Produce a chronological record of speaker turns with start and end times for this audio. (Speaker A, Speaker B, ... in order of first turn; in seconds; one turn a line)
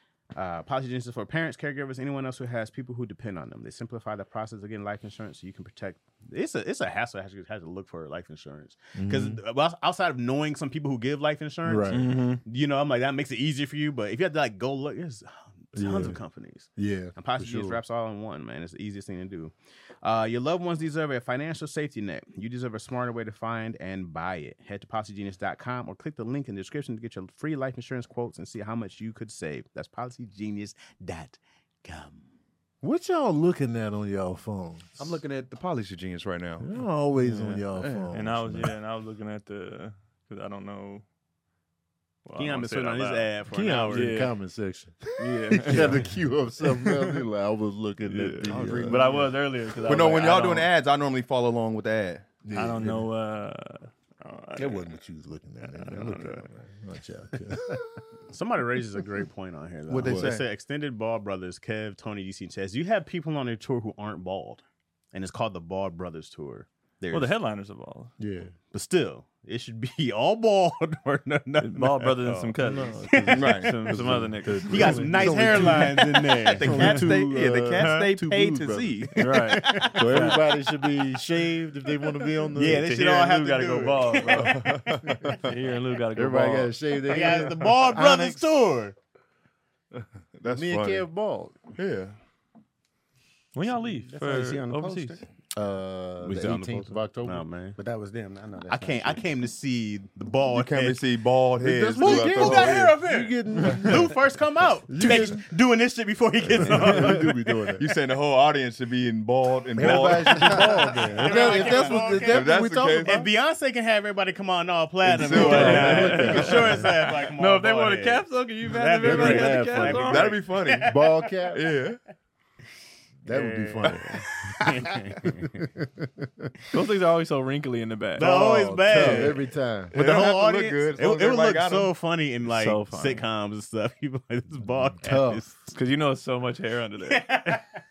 Speaker A: 0.3-32.2
Speaker B: 8.9-9.4
Speaker B: 11.6-12.0
Speaker C: 11.9-12.4
Speaker B: 15.7-16.2
Speaker B: 16.7-17.8
Speaker B: 32.8-35.2
Speaker D: 35.0-36.7
Speaker B: 36.6-38.7
Speaker C: 37.2-41.0
Speaker D: 37.8-38.1
Speaker C: 42.2-43.3
Speaker A: 42.4-44.1
Speaker B: 43.5-49.2
Speaker C: 43.9-44.3
Speaker C: 45.2-46.1
Speaker C: 48.1-50.7
Speaker D: 48.4-52.3
Speaker B: 52.4-53.1
Speaker C: 52.5-55.0
Speaker B: 54.6-57.9
Speaker C: 55.8-56.4
Speaker A: 58.3-67.3
Speaker D: 59.9-60.5
Speaker B: 60.0-60.4
Speaker C: 67.1-68.1
Speaker B: 68.2-68.5
Speaker A: 68.7-73.9
Speaker C: 71.6-75.3
Speaker B: 72.6-76.0
Speaker D: 73.3-73.7
Speaker A: 74.7-77.1
Speaker D: 74.8-79.3
Speaker B: 76.6-79.1
Speaker C: 79.2-80.5
Speaker A: 79.2-80.3
Speaker B: 79.9-82.9
Speaker A: 82.5-84.6
Speaker C: 82.6-84.6
Speaker D: 84.3-85.5
Speaker B: 85.1-85.4
Speaker C: 85.3-87.3
Speaker B: 86.1-88.6
Speaker A: 87.1-89.0
Speaker D: 89.9-91.0
Speaker B: 90.5-91.6
Speaker D: 91.8-92.2
Speaker C: 93.5-95.2
Speaker E: 93.8-95.2
Speaker B: 95.5-97.5
Speaker A: 96.2-97.8
Speaker E: 97.8-99.2
Speaker A: 98.7-101.0
Speaker D: 100.5-103.0
Speaker B: 101.6-104.1
Speaker A: 102.0-107.5
Speaker B: 104.9-105.4
Speaker B: 106.5-107.8
Speaker D: 107.8-113.3
Speaker B: 109.8-113.3
Speaker A: 109.8-121.5
Speaker D: 115.0-117.2
Speaker B: 115.2-116.8
Speaker C: 115.3-120.3
Speaker B: 119.0-120.1
Speaker D: 119.9-120.9
Speaker B: 120.8-121.6
Speaker D: 121.5-122.0
Speaker B: 123.2-126.5
Speaker A: 123.3-125.6
Speaker C: 126.7-128.3
Speaker A: 128.2-135.7
Speaker B: 128.2-129.9
Speaker D: 128.9-129.3
Speaker D: 129.9-131.9
Speaker C: 132.4-133.2
Speaker B: 135.0-135.4
Speaker C: 135.7-137.6
Speaker A: 137.0-137.8